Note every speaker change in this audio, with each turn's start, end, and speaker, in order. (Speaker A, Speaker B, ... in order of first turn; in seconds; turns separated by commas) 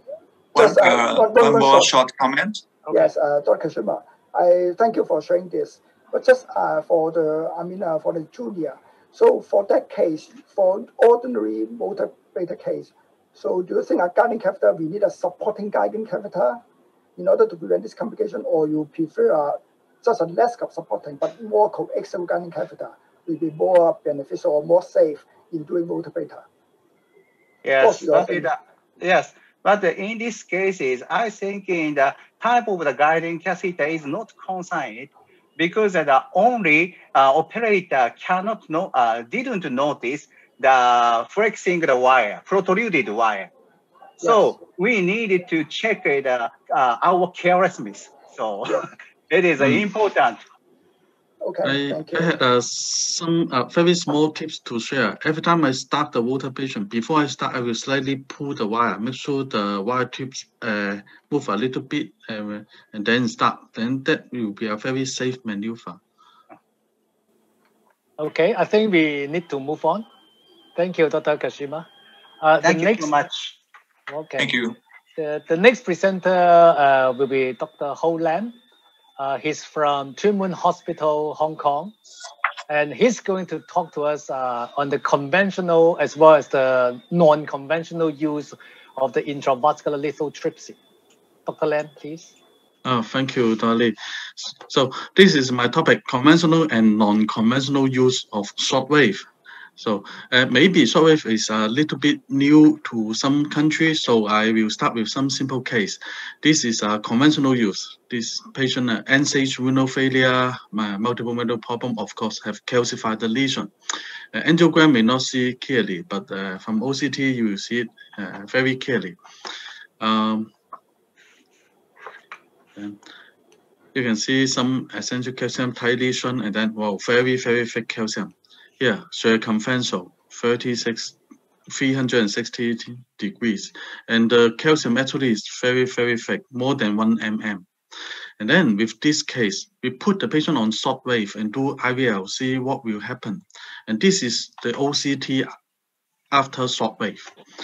Speaker A: 0.5-2.6, Speaker B: 0.6-1.9, Speaker B: 2.9-16.6, Speaker B: 17.2-26.4, Speaker C: 27.6-43.5, Speaker B: 27.8-28.5, Speaker B: 44.2-44.5, Speaker C: 44.2-50.4, Speaker B: 51.4-52.3, Speaker D: 51.6-66.0, Speaker E: 68.2-70.1, Speaker E: 70.8-71.9, Speaker E: 72.4-73.1, Speaker C: 72.6-73.5, Speaker E: 74.1-74.5, Speaker A: 74.4-74.8, Speaker E: 75.2-78.6, Speaker E: 79.2-81.9, Speaker E: 82.7-90.8, Speaker E: 91.5-92.3, Speaker D: 92.8-113.7, Speaker D: 114.3-119.2, Speaker D: 120.0-120.5, Speaker D: 123.9-131.2, Speaker D: 131.7-137.7, Speaker D: 138.4-145.5, Speaker D: 146.3-147.3